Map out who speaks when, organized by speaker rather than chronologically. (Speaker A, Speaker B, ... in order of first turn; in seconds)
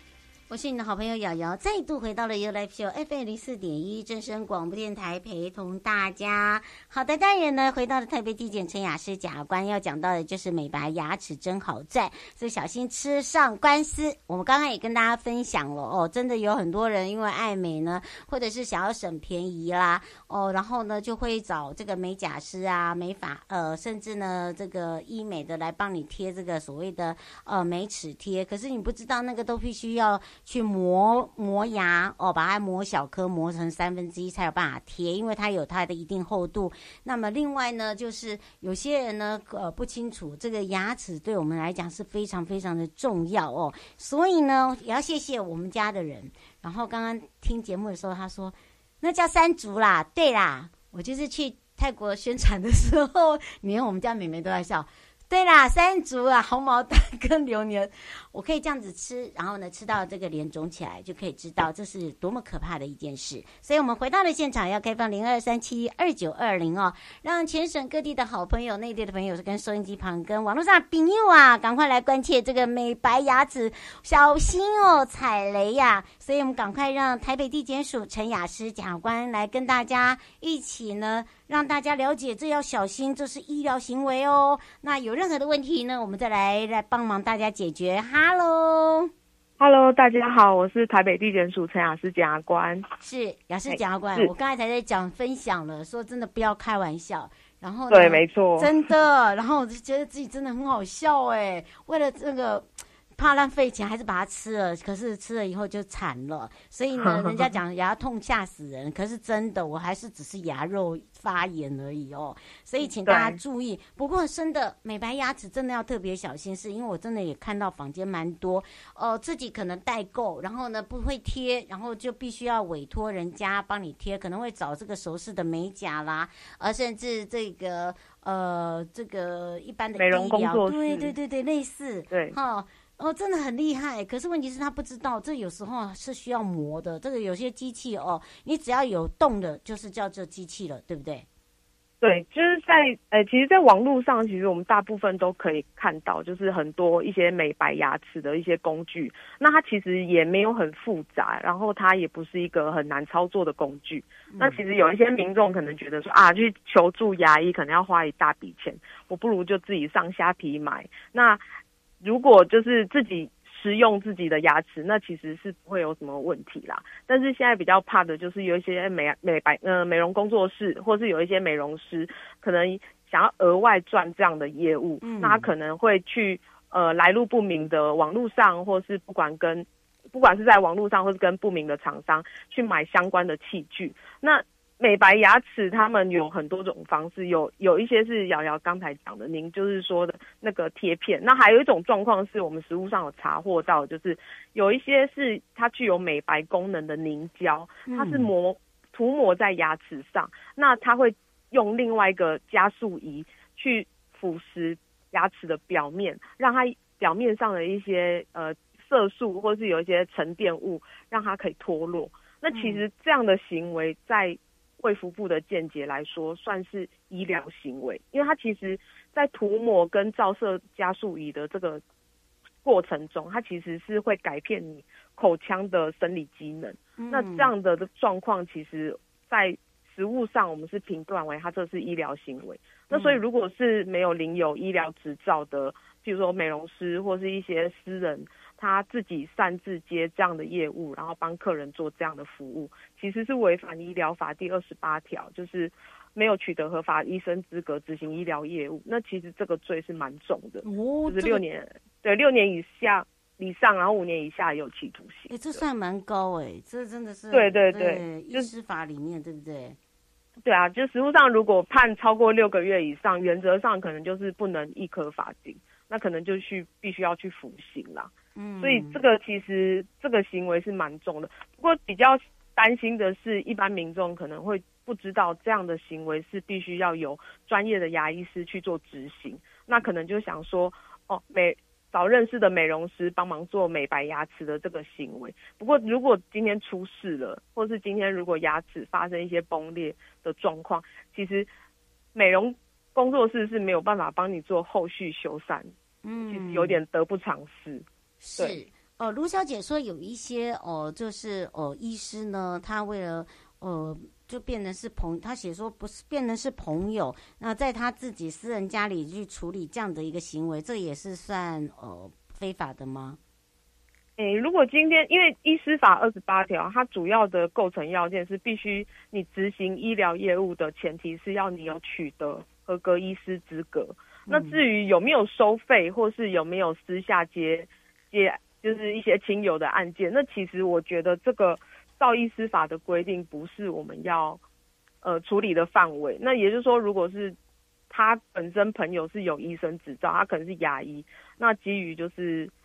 Speaker A: 0.5-89.1, 93.0-141.3, 154.3-154.6, 175.0-175.5, 197.8-198.3, 212.5-212.8, 227.0-227.5, 232.9-233.2, 250.6-251.4, 255.3-259.8, 268.4-269.0, 296.0-296.8, 298.2-313.2, 324.3-324.6
Speaker B: 89.6-92.9, 93.7-94.3, 97.9-98.7, 106.9-107.5, 113.0-113.4, 130.0-131.1, 132.1-132.3, 142.0-161.4, 162.0-221.8, 222.6-255.6, 257.3-258.5, 260.4-291.5, 292.1-295.7, 296.2-297.9, 314.2-334.4, 335.0-337.4, 337.9-342.5